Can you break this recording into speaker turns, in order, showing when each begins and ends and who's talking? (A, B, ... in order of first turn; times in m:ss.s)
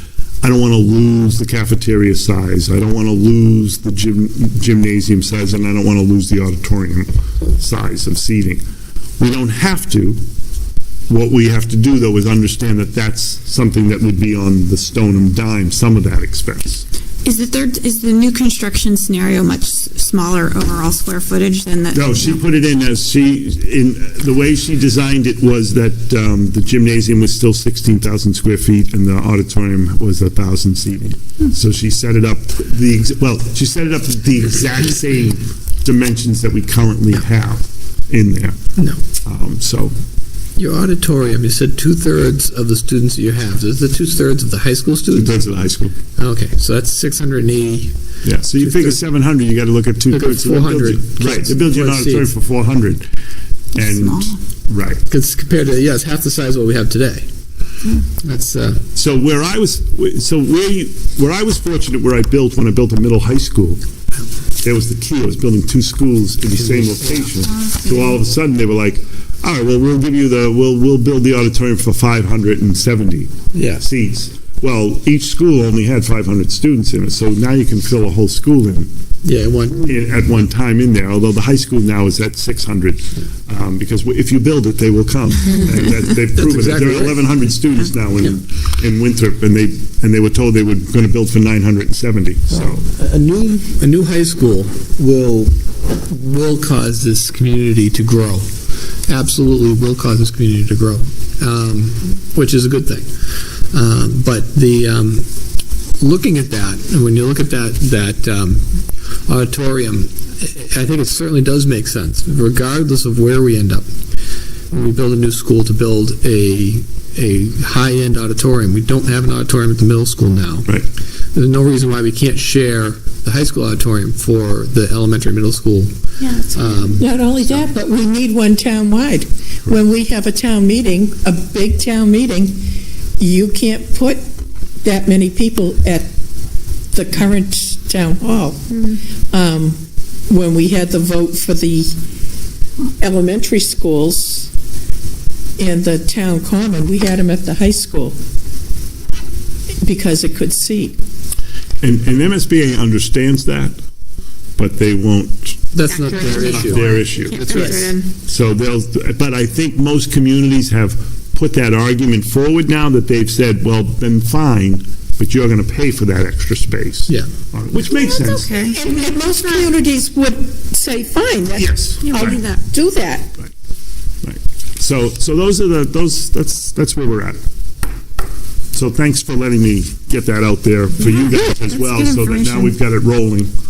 0:00.4-0:08.6 A
0:09.2-0:10.2 A
0:11.1-0:16.8 A
0:17.2-0:22.4 B
0:21.9-0:38.6 A
0:39.2-0:39.9 A
0:40.6-0:45.4 C
0:45.1-0:46.0 A
0:46.2-0:47.9 C
0:48.2-0:53.1 A
0:48.5-0:49.0 C
0:50.1-0:52.3 C
0:53.7-0:55.0 A
0:53.7-0:54.4 B
0:55.1-0:57.2 C
0:58.2-0:58.8 C
0:58.9-1:03.8 A
1:04.6-1:18.9 A
1:07.6-1:08.1 B
1:13.5-1:13.8 C
1:19.2-1:20.0 C
1:19.8-1:32.8 A
1:26.3-1:27.3 C
1:32.5-1:45.3 C
1:46.0-1:53.9 C
1:54.7-2:00.8 C
2:01.3-2:05.9 C
2:06.2-2:06.9 B
2:06.5-2:07.1 C
2:07.0-2:12.6 D
2:13.2-2:14.2 D
2:14.8-2:16.1 D
2:16.9-2:18.7 D
2:19.3-2:19.8 D
2:20.3-2:21.9 D
2:23.0-2:24.5 D
2:25.6-2:28.1 D
2:29.8-2:31.0 D
2:31.8-2:33.8 A
2:34.6-2:35.6 A
2:35.7-2:36.9 C
2:35.9-2:38.1 B
2:36.3-2:48.5 A
2:37.3-2:37.9 D
2:37.5-2:37.7 C
2:48.0-2:49.2 B
2:48.1-2:53.3 D
2:51.6-2:52.4 A
2:52.0-2:52.6 B
2:54.2-2:57.4 A
2:58.7-3:03.5 A
3:01.0-3:02.7 B